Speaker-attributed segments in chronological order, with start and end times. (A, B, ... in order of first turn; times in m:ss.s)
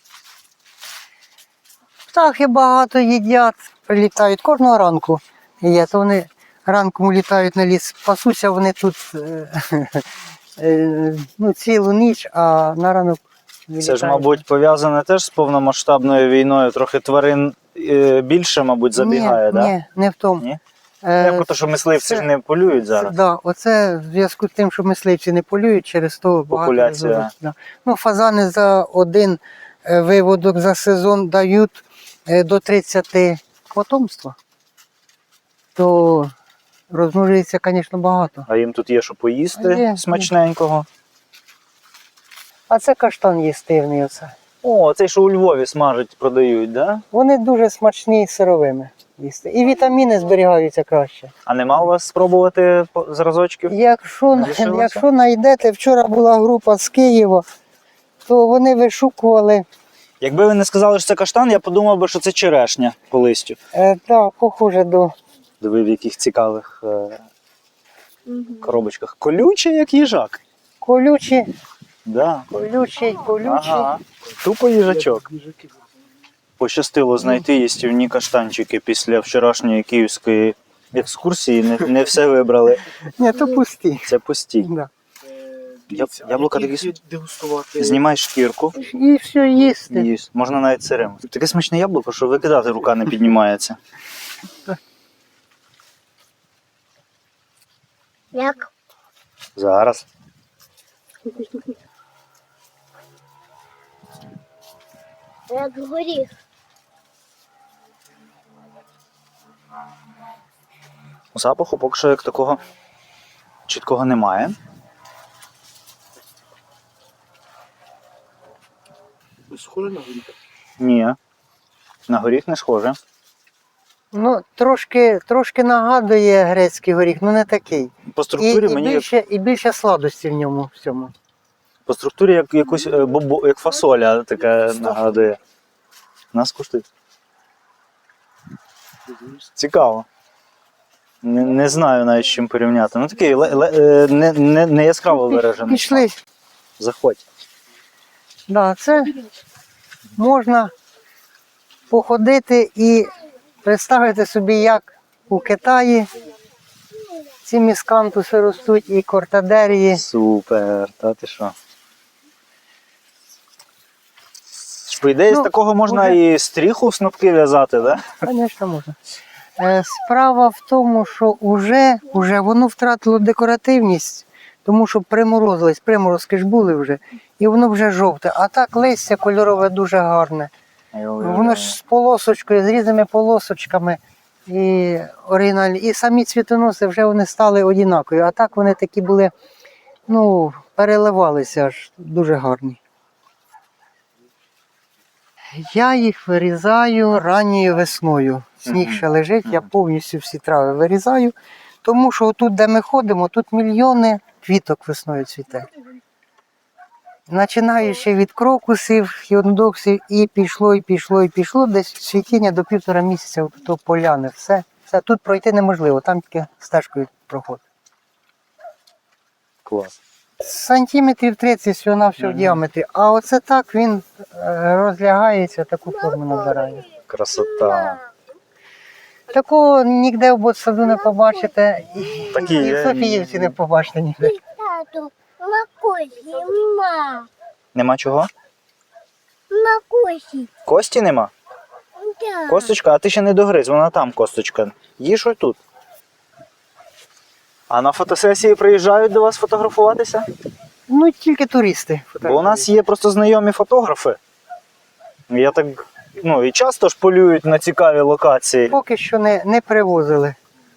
0:02.1-0:14.4 A
0:13.8-0:19.7 B
0:19.0-0:20.4 A
0:21.0-0:22.3 A
0:21.2-0:23.2 B
0:22.9-0:34.4 A
0:26.5-0:27.3 B
0:35.8-0:36.3 A
0:36.9-0:38.5 A
0:38.5-0:40.9 B
0:39.6-0:40.3 A
0:42.7-0:44.3 A
0:44.6-0:47.0 B
0:47.1-0:51.3 A
0:51.5-0:53.8 B
0:53.7-0:57.4 A
0:54.3-0:55.0 B
0:58.3-0:59.7 A
1:00.2-1:03.6 B
1:03.7-1:05.1 A
1:05.6-1:07.2 B
1:08.6-1:10.4 B
1:10.8-1:11.5 A
1:12.1-1:12.7 B
1:12.5-1:13.9 A
1:13.4-1:15.3 B
1:14.8-1:15.7 C
1:16.6-1:22.9 B
1:23.1-1:24.9 A
1:24.1-1:24.7 B
1:25.9-1:28.0 C
1:25.9-1:27.0 B
1:27.8-1:28.8 B
1:28.8-1:30.1 A
1:29.9-1:33.8 B
1:38.3-1:38.7 D
1:39.6-1:40.1 B
1:45.5-1:46.3 D
1:51.3-1:52.6 B
1:53.7-1:54.6 B
1:59.5-2:00.3 C
2:00.8-2:01.2 B
2:02.1-2:03.0 B
2:04.1-2:11.1 A
2:08.1-2:09.1 B
2:11.9-2:15.4 B
2:14.9-2:15.3 C
2:16.3-2:16.9 B
2:19.6-2:20.1 B
2:21.2-2:26.1 B
2:25.1-2:26.2 A
2:26.8-2:27.2 B
2:28.5-2:29.2 A
2:30.2-2:30.7 A
2:31.9-2:36.1 A
2:37.4-2:40.0 A
2:39.9-2:41.6 B
2:44.8-2:48.2 B
2:45.3-2:46.2 A
2:48.2-2:49.0 A
2:49.6-3:00.5 A
3:00.9-3:01.8 B
3:01.2-3:09.3 A
3:10.1-3:12.8 A
3:15.5-3:25.7 A
3:18.7-3:19.7 B
3:27.3-3:37.6 A
3:39.6-3:39.9 B
3:40.4-3:46.8 A
3:42.2-3:42.6 B
3:46.0-3:48.0 D
3:47.1-3:48.0 B
3:49.3-3:54.4 A
3:50.9-3:51.4 D
3:52.3-3:53.6 B
3:54.2-3:57.3 D
3:57.8-3:58.3 B
3:59.5-4:00.5 D
4:00.6-4:01.3 B
4:02.0-4:02.7 D
4:02.5-4:05.6 B
4:07.7-4:10.3 B
4:10.9-4:12.7 A
4:12.2-4:14.2 B
4:15.3-4:18.8 B
4:18.7-4:20.4 A